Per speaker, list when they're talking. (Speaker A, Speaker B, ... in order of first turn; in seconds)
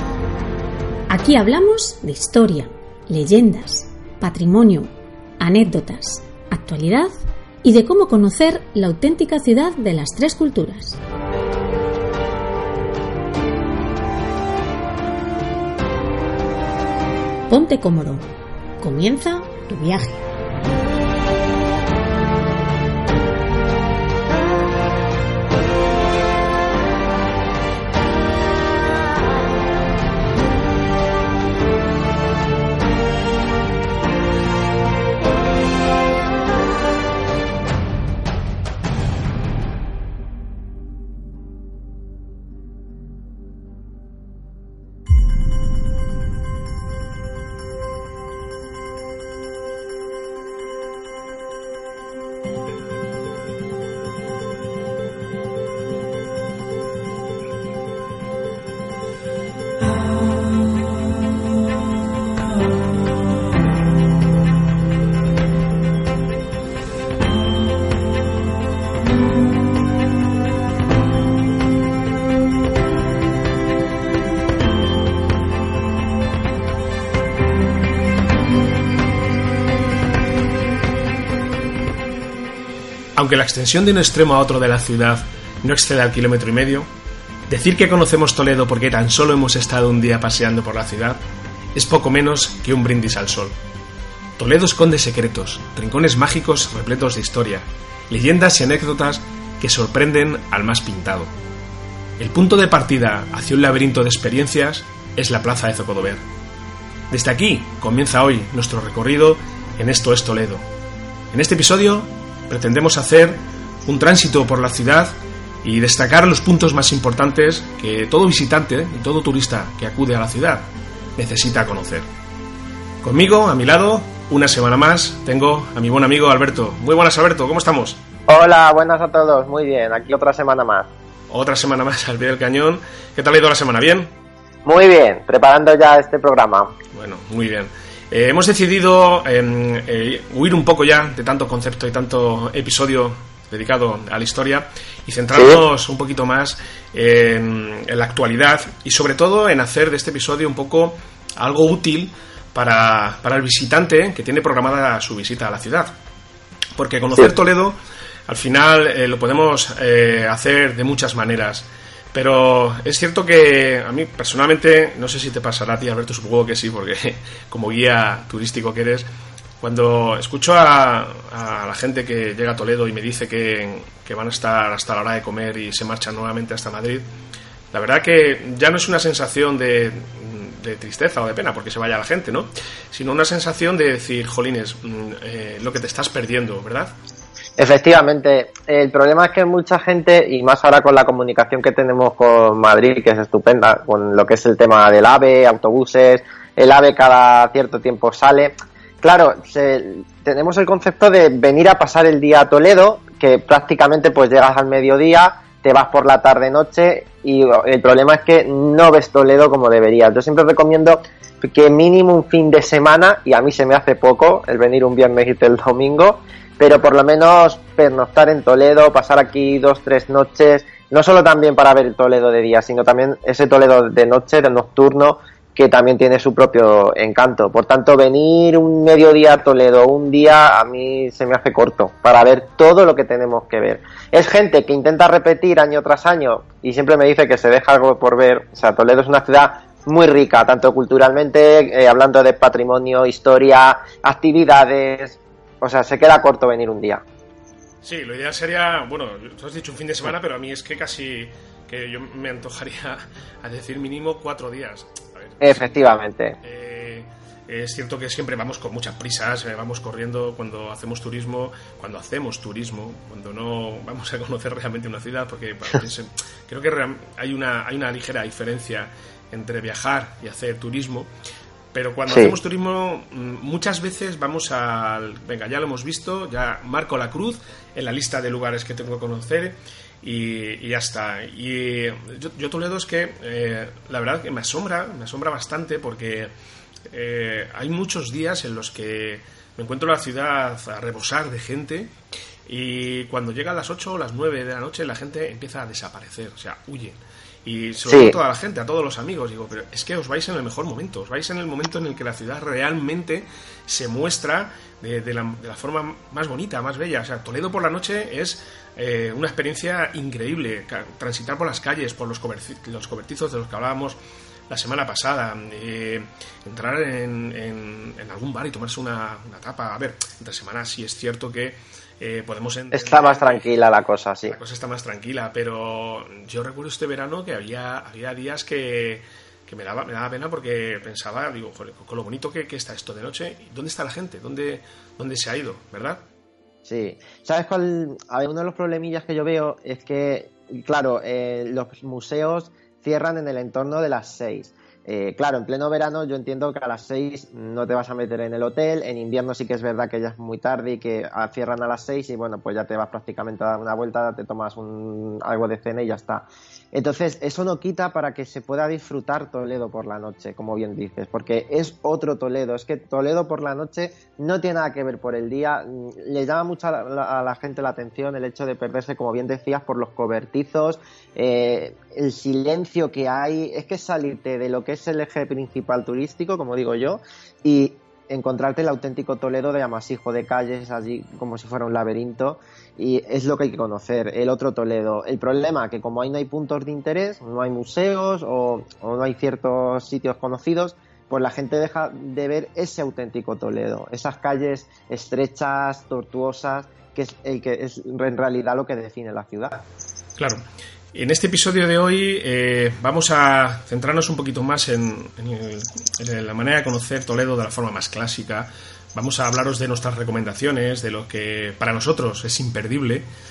Speaker A: 1.1-11.0, 17.5-18.2, 18.8-20.2
Speaker B: 83.2-86.9, 87.5-91.2, 91.7-93.5, 94.4-101.3, 102.2-106.2, 107.1-110.6, 111.3-122.0, 123.0-128.0, 131.3-134.1, 136.9-155.9, 156.8-157.8, 158.3-169.1, 169.6-177.0, 177.7-186.9, 247.8-271.1, 271.7-286.3, 286.9-291.9, 292.5-314.0, 314.5-323.5, 324.3-336.0, 400.2-400.4, 400.9-413.1
Speaker C: 128.3-130.9, 134.6-136.7, 145.3-145.6, 187.6-247.0, 255.4-256.4, 272.1-272.3, 297.9-298.1, 322.7-324.4, 336.6-399.6